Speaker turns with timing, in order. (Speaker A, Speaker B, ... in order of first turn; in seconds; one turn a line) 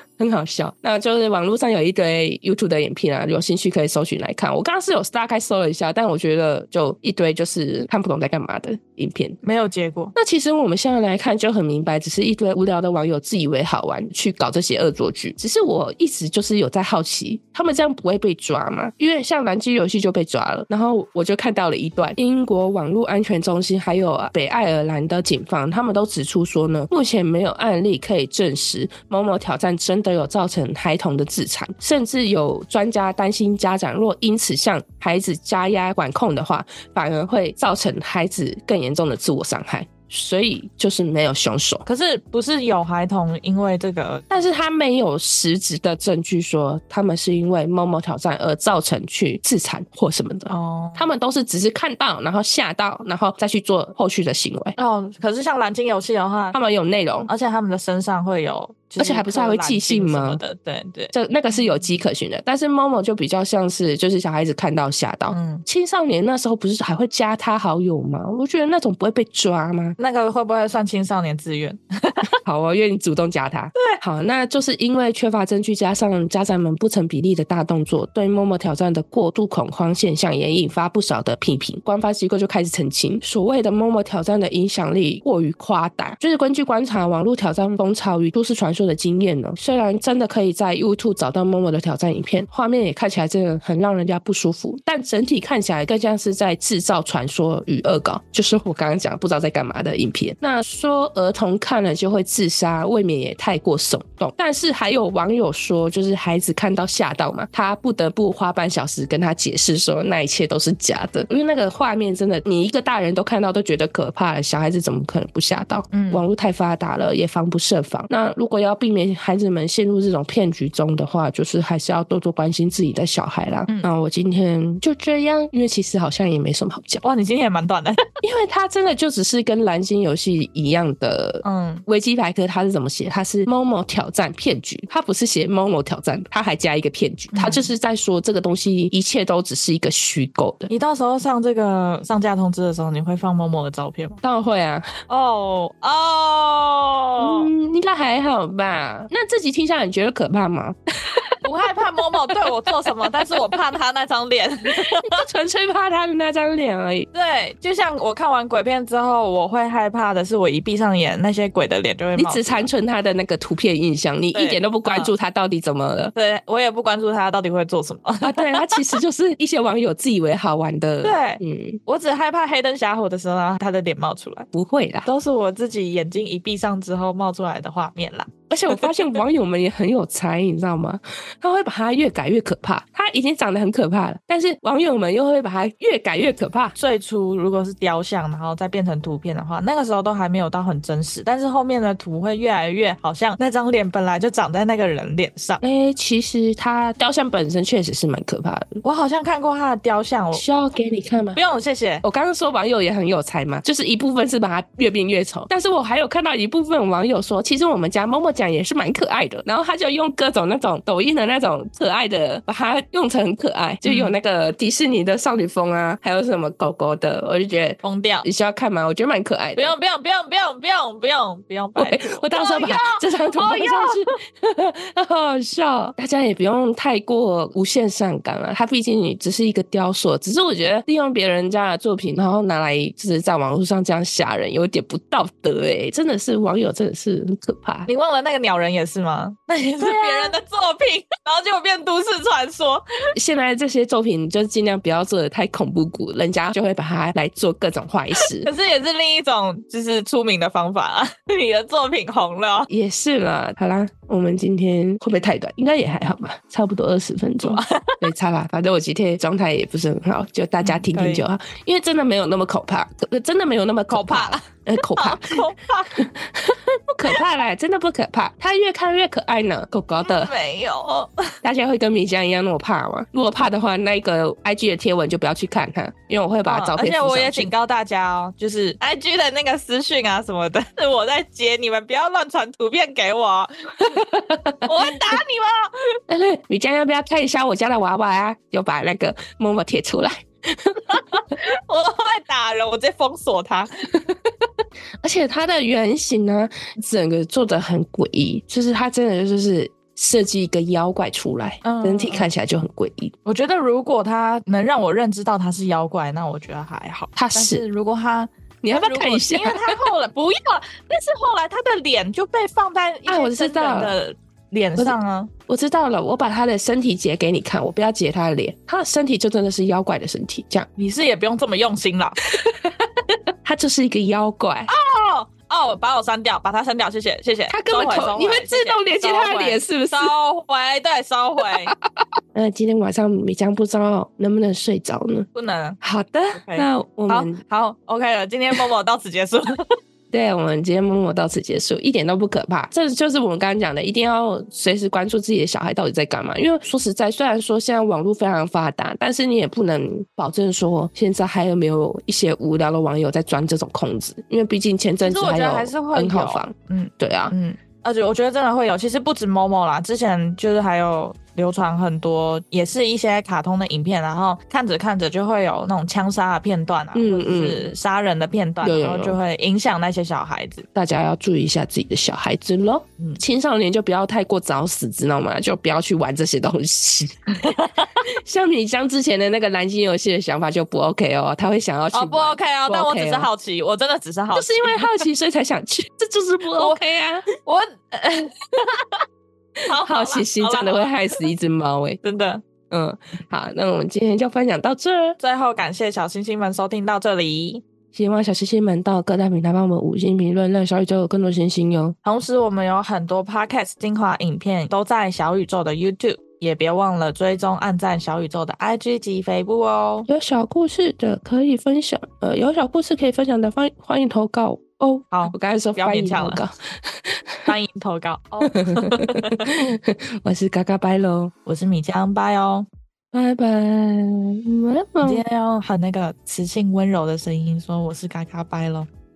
Speaker A: 0.2-9.4
Speaker B: 9.4-10.1
Speaker A: 10.2-41.9
Speaker B: 41.9-44.2
Speaker A: 44.3-54.8
Speaker B: 50.5-51.1
Speaker B: 54.8-56.6
Speaker A: 56.5-57.3
Speaker B: 57.2-61.8
Speaker A: 59.0-60.4
Speaker A: 61.1-70.0
Speaker B: 65.3-65.7
Speaker B: 70.0-72.3
Speaker A: 72.4-127.0
Speaker B: 115.9-116.2
Speaker B: 127.0-128.0
Speaker A: 128.2-140.7
Speaker B: 131.4-131.8
Speaker B: 137.3-137.7
Speaker B: 140.7-144.2
Speaker A: 144.2-144.9
Speaker B: 145.1-147.5
Speaker A: 147.2-151.3
Speaker B: 151.4-155.2
Speaker A: 153.0-153.6
Speaker A: 154.7-157.1
Speaker B: 157.1-162.7
Speaker A: 162.2-166.1
Speaker B: 164.3-165.1
Speaker B: 166.2-168.8
Speaker A: 168.2-171.8
Speaker B: 171.0-174.5
Speaker A: 174.5-175.1
Speaker B: 175.1-179.2
Speaker A: 178.5-186.8
Speaker B: 186.8-195.6
Speaker A: 195.6-198.8
Speaker B: 198.8-200.4
Speaker A: 200.3-201.4
Speaker B: 201.3-202.0
Speaker A: 202.0-219.8
Speaker B: 213.8-214.2
Speaker B: 217.8-218.3
Speaker B: 219.6-224.2
Speaker A: 221.8-237.9
Speaker B: 237.9-242.8
Speaker A: 239.8-240.4
Speaker A: 243.2-248.5
Speaker B: 248.3-252.7
Speaker A: 252.7-265.4
Speaker B: 257.4-258.1
Speaker B: 260.6-261.2
Speaker B: 263.9-266.1
Speaker A: 266.0-270.3
Speaker B: 270.0-271.3
Speaker A: 271.4-277.5
Speaker B: 276.4-284.1
Speaker A: 283.9-285.2
Speaker B: 284.6-286.0
Speaker A: 286.1-291.2
Speaker B: 290.9-293.9
Speaker A: 295.0-303.1
Speaker B: 301.6-302.3
Speaker B: 303.2-315.3
Speaker A: 307.2-307.6
Speaker A: 308.6-309.8
Speaker A: 313.1-313.9
Speaker A: 315.5-320.7
Speaker B: 320.8-322.3
Speaker A: 322.4-322.8
Speaker A: 323.4-324.7
Speaker B: 324.7-331.7
Speaker A: 327.5-330.1
Speaker A: 332.3-335.3
Speaker B: 335.3-335.8
Speaker A: 335.8-337.4
Speaker B: 336.3-339.8
Speaker A: 340.1-357.3
Speaker B: 355.0-370.7
Speaker A: 366.9-367.7
Speaker A: 368.6-369.2
Speaker A: 370.8-377.2
Speaker B: 377.3-377.9
Speaker A: 378.2-383.3
Speaker B: 381.9-385.1
Speaker A: 384.3-387.3
Speaker B: 386.5-389.0
Speaker B: 389.7-391.3
Speaker A: 389.8-392.0
Speaker B: 392.0-392.4
Speaker A: 392.7-395.2
Speaker B: 395.2-397.6
Speaker A: 397.9-402.0
Speaker B: 402.0-410.1
Speaker A: 410.1-417.5
Speaker B: 415.1-416.4
Speaker B: 417.5-419.5
Speaker A: 418.4-421.3
Speaker B: 421.5-422.7
Speaker A: 423.1-425.2
Speaker B: 425.0-428.9